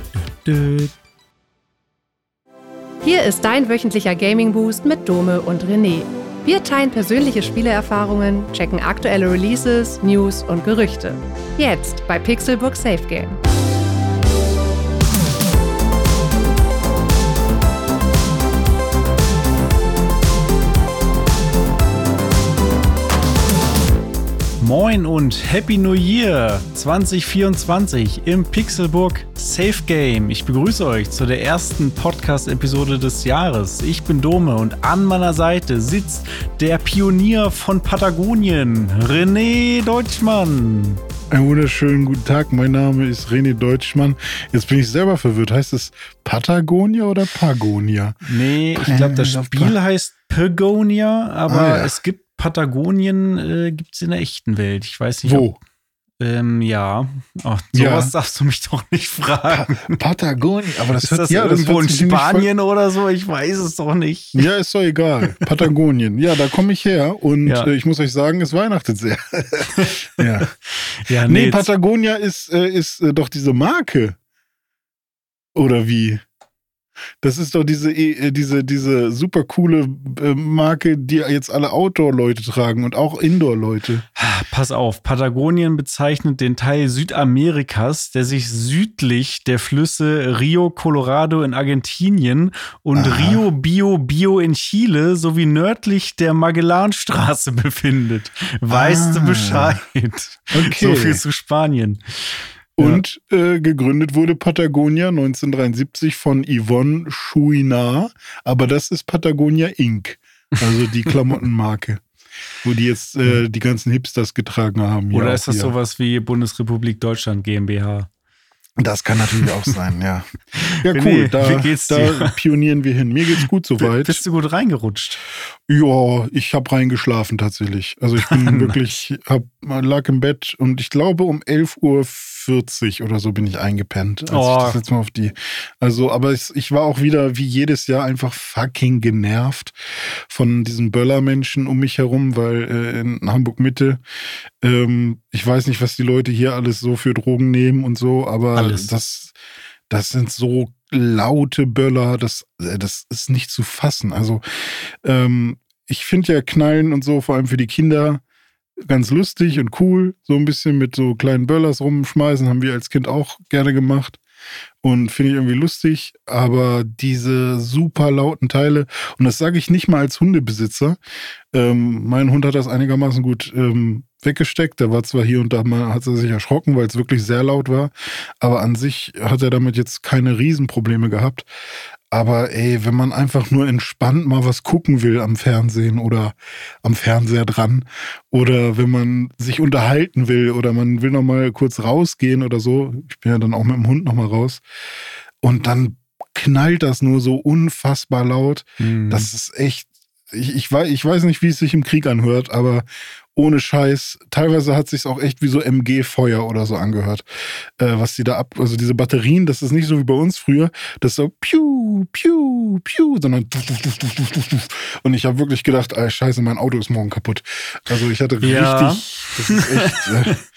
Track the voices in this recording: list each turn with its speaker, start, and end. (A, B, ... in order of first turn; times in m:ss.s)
0:00.2-0:00.9 A
0:03.0-0:13.4 B
0:24.6-0:41.0 A
0:41.3-0:48.2 C
0:48.2-0:55.5 A
0:48.8-0:49.8 C
0:51.5-0:52.0 C
0:55.2-0:55.6 C
0:56.2-1:00.0 A
0:57.7-0:58.1 C
0:59.5-1:02.5 C
1:01.0-1:04.5 A
1:04.3-1:10.5 C
1:07.4-1:07.7 A
1:09.7-1:10.2 A
1:11.0-1:11.7 A
1:11.2-1:14.2 C
1:15.5-1:16.2 C
1:17.2-1:24.0 C
1:24.2-1:43.0 A
1:32.9-1:33.4 C
1:38.7-1:39.8 C
1:40.5-1:41.2 C
1:42.8-1:52.0 C
1:52.6-1:55.7 C
1:55.1-1:58.1 A
1:58.8-2:04.2 C
2:00.6-2:02.3 A
2:03.8-2:05.2 A
2:05.7-2:24.0 C
2:08.2-2:08.8 A
2:14.3-2:14.8 A
2:24.6-2:29.3 C
2:28.5-2:28.9 A
2:29.9-2:38.2 C
2:38.8-2:44.2 C
2:44.8-2:51.0 C
2:51.5-3:01.5 C
3:02.1-3:14.6 C
3:15.4-3:40.4 C
3:18.8-3:19.3 A
3:38.4-3:40.4 A